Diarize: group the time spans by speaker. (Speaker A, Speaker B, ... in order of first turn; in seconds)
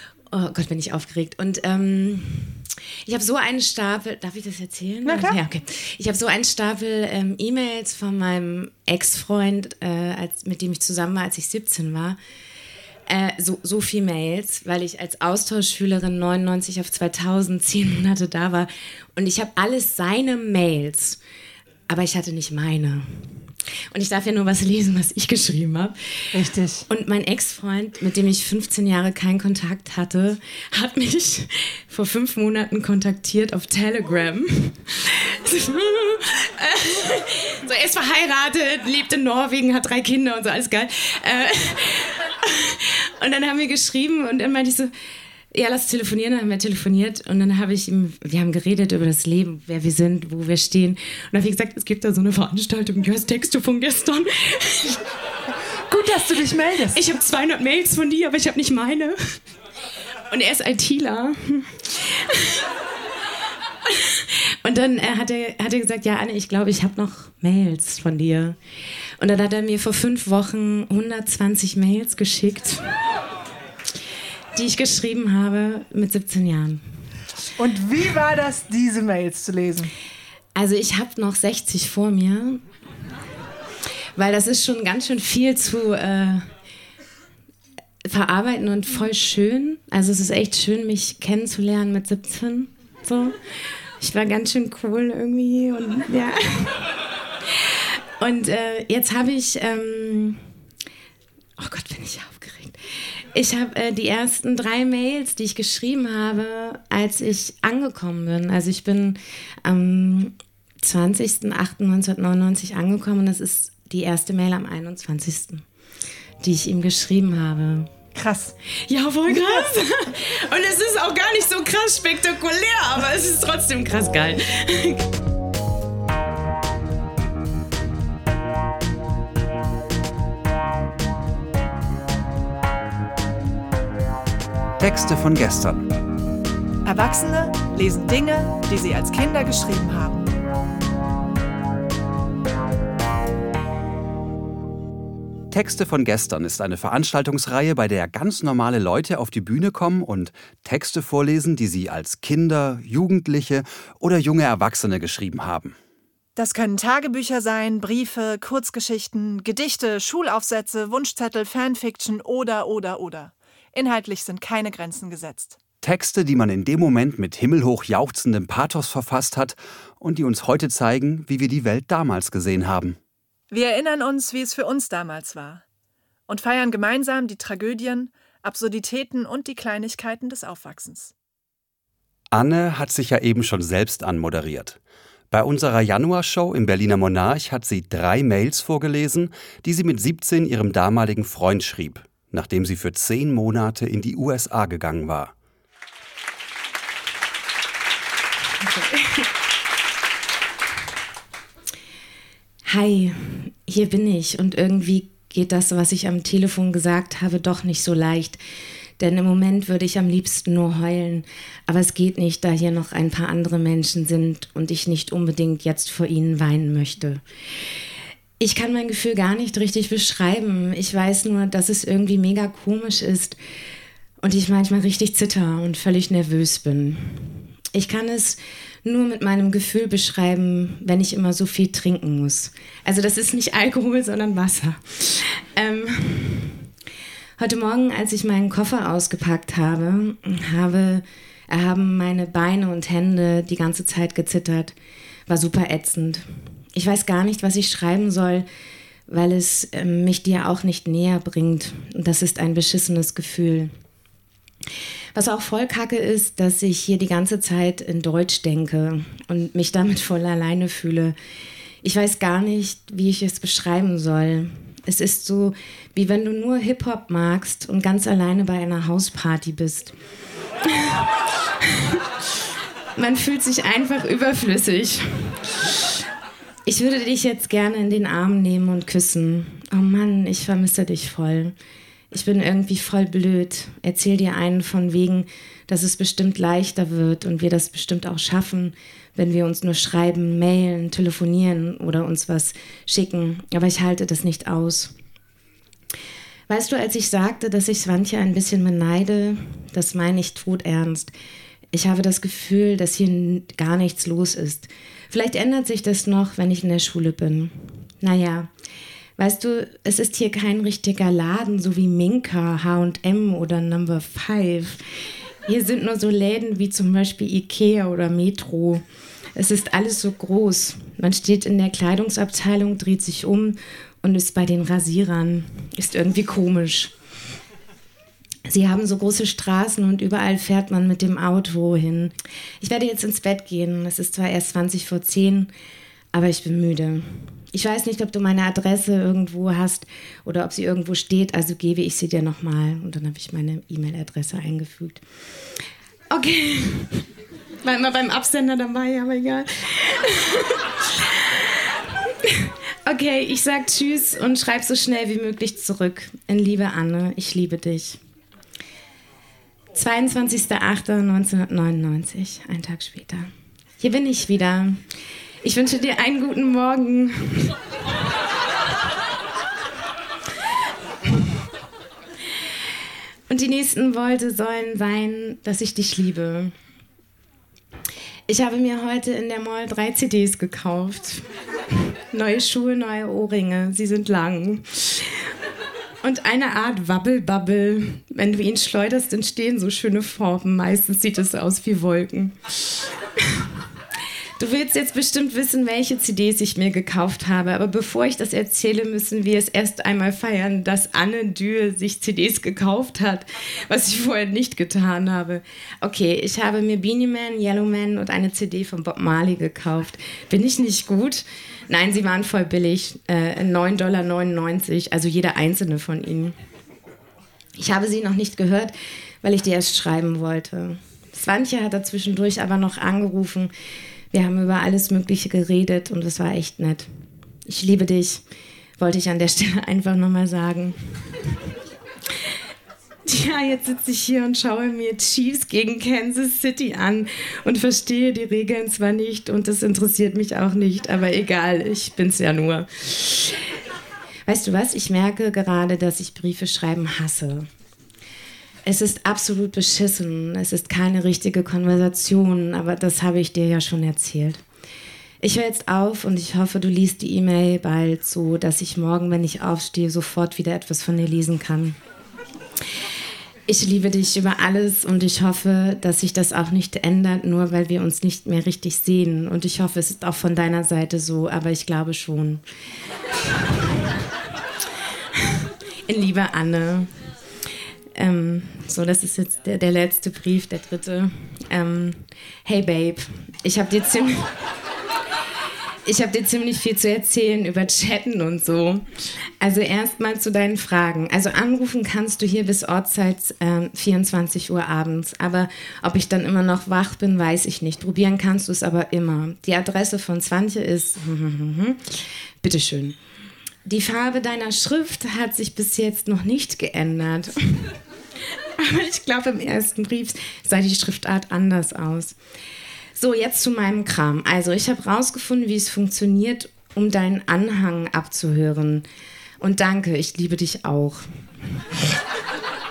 Speaker A: 0.3-12.2, 13.1-21.2, 21.9-26.3, 26.9-44.9, 45.5-55.0, 56.9-59.4, 60.3-62.6, 63.9-68.6, 69.2-73.0, 74.6-76.8, 80.5-82.6, 84.2-86.5, 88.0-93.4, 94.0-96.9, 97.5-100.4, 101.6-102.8, 103.3-115.7, 116.4-117.9, 118.9-125.1, 198.7-199.3, 202.7-208.4, 209.0-217.2, 218.4-223.4, 224.2-236.7, 237.4-244.8, 245.3-248.5, 249.1-253.7, 255.2-261.1, 261.8-269.9, 270.6-271.1, 271.6-272.0, 273.0-276.0, 276.7-281.6, 282.1-294.9, 296.5-301.1, 301.7-308.5, 309.2-314.9, 315.5-318.8, 319.4-326.9, 328.5-335.5, 336.1-345.0, 346.1-347.1, 347.6-358.0, 359.7-364.8, 365.4-367.6, 373.3-376.6, 378.3-385.3, 386.0-393.5, 394.4-416.4, 417.6-423.5, 424.1-426.9, 427.5-428.2, 428.8-431.3, 433.1-443.5, 444.3-447.5, 448.7-454.4, 455.2-461.8, 463.5-472.4, 475.2-476.9, 477.9-484.4, 485.9-503.0, 503.6-507.8, 508.4-512.2, 513.0-518.9, 519.4-521.1
Speaker B: 5.1-5.4, 26.3-26.9, 55.9-57.0, 77.6-79.9
Speaker C: 118.2-118.5, 136.8-140.3, 156.4-165.6, 173.5-175.6, 176.3-181.1
Speaker D: 134.8-135.9, 145.5-155.8, 165.8-173.0, 182.3-184.8, 185.3-195.3